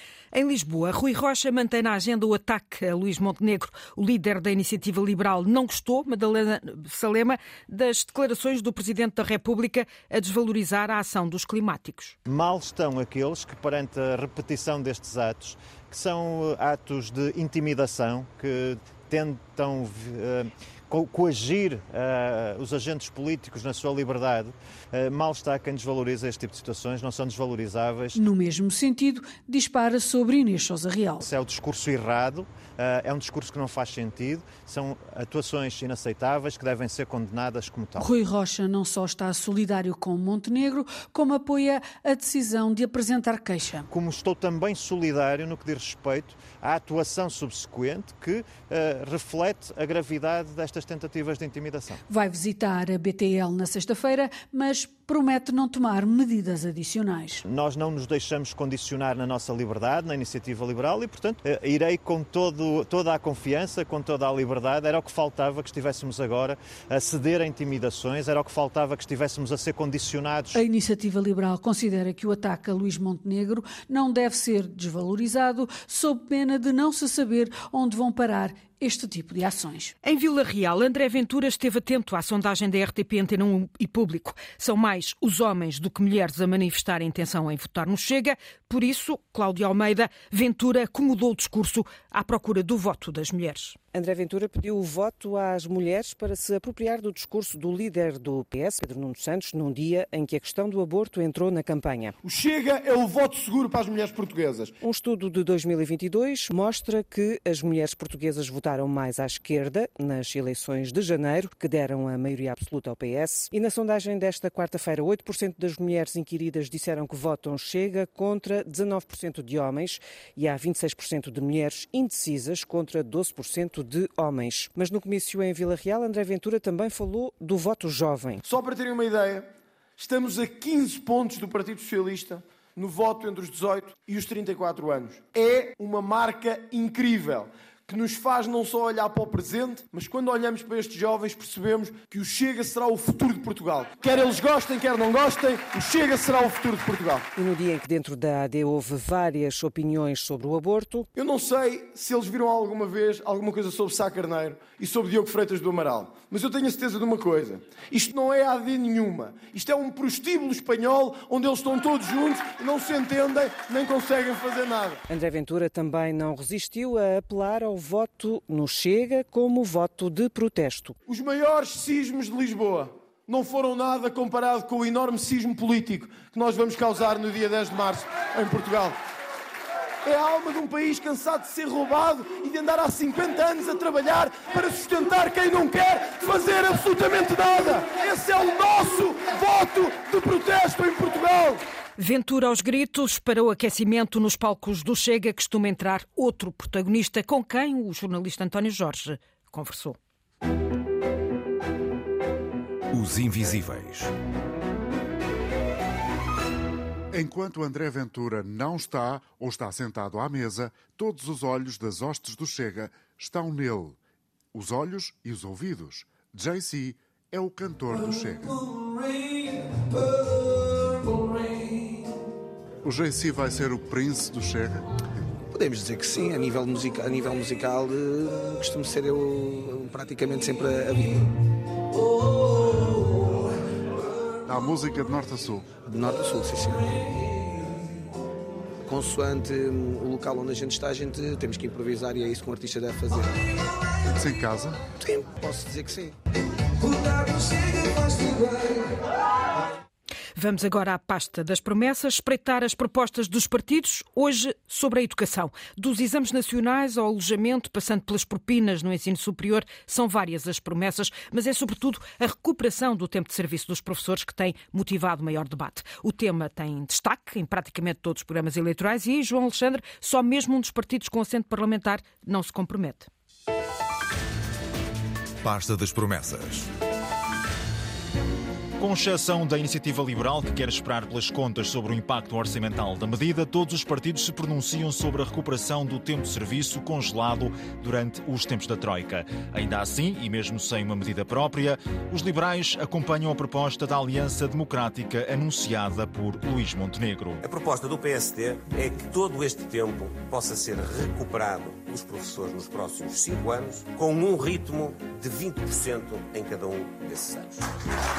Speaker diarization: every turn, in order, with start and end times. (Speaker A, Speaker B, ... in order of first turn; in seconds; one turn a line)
Speaker A: 0.3-12.2
Speaker B: 12.3-28.2
Speaker C: 28.1-31.3
Speaker B: 31.2-38.1
Speaker C: 38.0-43.9
Speaker B: 43.9-52.0
Speaker C: 52.1-57.4
Speaker B: 57.5-70.6
Speaker C: 70.5-79.9
Speaker A: 80.0-93.8
Speaker D: 93.9-102.2
Speaker E: 102.2-104.8
Speaker D: 104.8-128.4
Speaker E: 128.4-147.3
Speaker D: 147.3-151.1
Speaker E: 151.2-165.0
Speaker D: 165.1-171.0
Speaker E: 171.1-179.0
Speaker E: 180.1-191.6
Speaker A: 192.0-200.0
Speaker F: 202.9-204.1
Speaker G: 207.1-214.0
Speaker G: 214.5-218.5
Speaker G: 222.8-224.9
Speaker H: 225.5-231.3
Speaker G: 234.5-235.8
Speaker H: 235.9-237.0
Speaker H: 238.9-243.3
Speaker G: 244.1-244.8
Speaker H: 245.0-246.2
Speaker H: 247.1-248.5
Speaker A: 250.4-273.1
Speaker F: 275.4-276.7
Speaker I: 278.8-297.4
Speaker J: 297.4-307.6